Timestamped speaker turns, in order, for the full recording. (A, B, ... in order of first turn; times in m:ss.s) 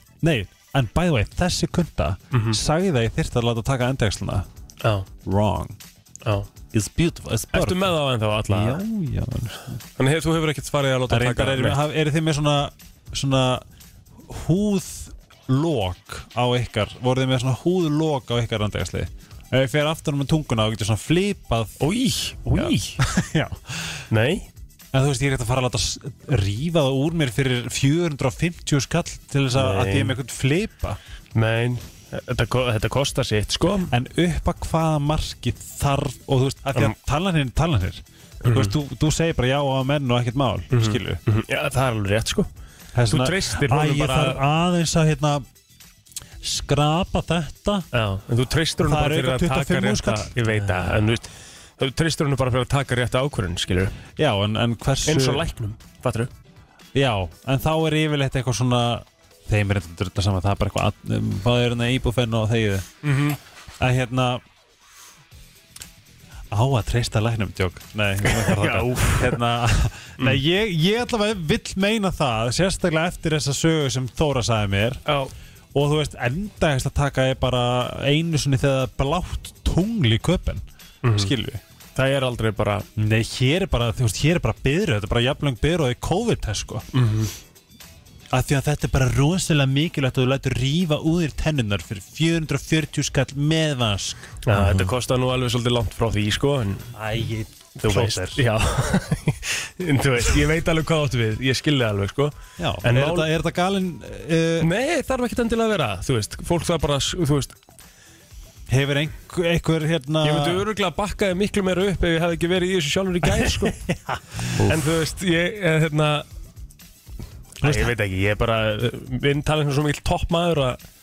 0:00.2-0:04.4 A
0:02.3-0:02.6 B
0:05.2-0:05.8 A
0:06.7-0:07.9 A
0:07.5-0:08.8 B
0:08.5-0:09.8 A
0:10.0-0:11.8 B
0:11.1-0:13.6 A
0:14.2-0:21.8 A
0:21.8-0:23.0 B
0:22.5-0:24.0 A
0:24.1-0:24.5 B
0:24.9-0:31.0 A
0:29.5-0:30.2 B
0:31.3-0:33.9 B
0:33.9-0:41.2 A
0:38.4-0:38.7 B
0:40.7-0:42.5 B
0:42.9-0:45.4 A
0:43.0-0:44.4 B
0:46.4-0:47.9 A
0:47.9-0:53.9 B
0:48.8-0:50.9 A
0:54.2-0:55.5 A
0:55.0-0:56.3 B
0:56.9-1:02.9 A
1:03.0-1:03.4 B
1:03.8-1:04.4 A
1:06.5-1:15.0 A
1:08.2-1:09.4 B
1:15.0-1:15.3 B
1:15.7-1:20.6 A
1:21.0-1:21.3 B
1:21.1-1:21.6 A
1:21.9-1:22.8 B
1:23.0-1:26.8 A
1:26.9-1:27.3 B
1:28.3-1:34.2 A
1:34.4-1:36.9 B
1:36.9-1:38.4 A
1:37.8-1:43.3 B
1:42.6-1:44.7 A
1:44.6-1:47.6 B
1:48.7-1:50.6 A
1:50.2-1:53.7 B
1:53.2-1:54.6 A
1:54.7-1:56.2 B
1:57.6-1:57.9 A
1:57.6-2:00.8 B